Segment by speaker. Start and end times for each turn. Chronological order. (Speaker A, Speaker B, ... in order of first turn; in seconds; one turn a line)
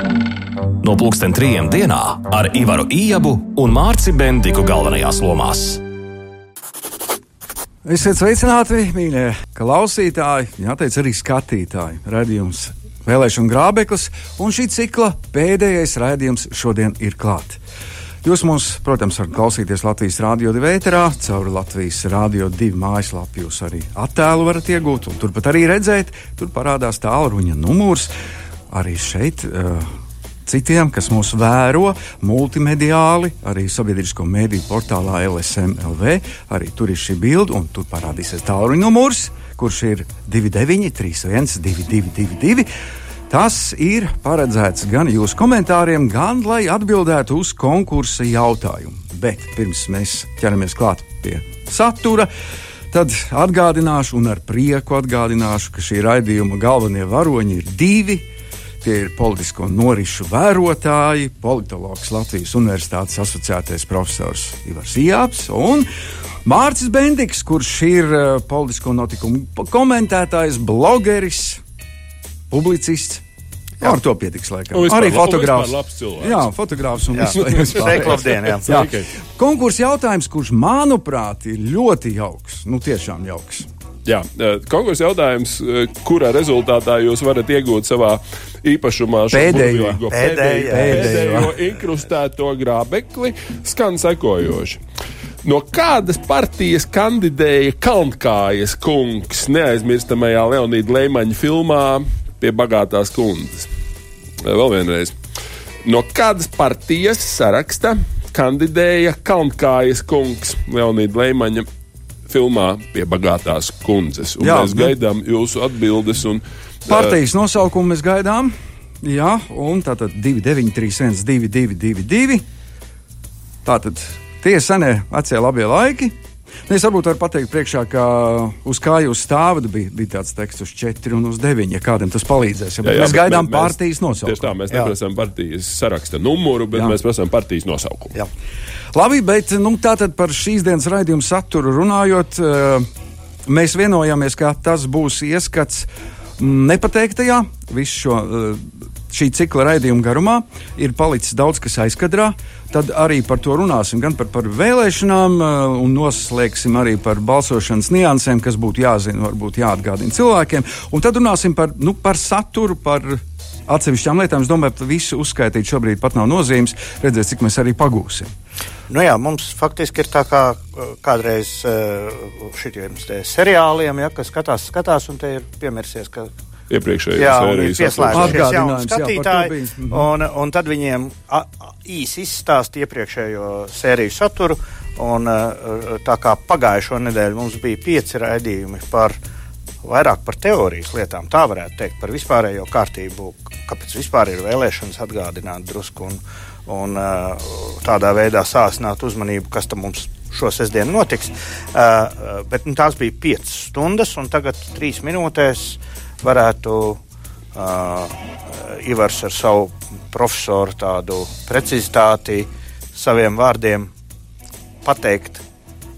Speaker A: 0.8-5.8
Speaker B: 7.8-17.6
Speaker B: 18.2-28.1
Speaker B: 28.7-29.9
Speaker B: 30.4-42.7
Speaker B: 43.3-52.3
Speaker B: 52.9-58.3
Speaker B: 58.8-65.9
Speaker B: 66.4-71.6
Speaker B: 72.5-73.2
Speaker B: 73.8-83.7
Speaker C: 74.7-76.5
Speaker D: 77.1-78.9
Speaker C: 77.4-79.0
Speaker C: 84.0-94.8
Speaker B: 89.3-90.0
Speaker D: 90.1-91.4
Speaker B: 90.7-91.5
Speaker C: 95.4-103.7
Speaker C: 104.4-105.1
Speaker C: 105.8-111.7
Speaker C: 112.3-117.2
Speaker B: 114.4-114.9
Speaker B: 116.9-122.4
Speaker B: 123.6-134.5
Speaker C: 132.8-138.1
Speaker B: 138.9-142.8
Speaker B: 143.4-168.3
Speaker D: 168.9-176.3
Speaker C: 176.7-178.4
Speaker D: 177.2-189.2
Speaker B: 178.1-180.1
Speaker D: 189.8-207.0
Speaker D: 207.5-213.9
Speaker D: 214.8-215.4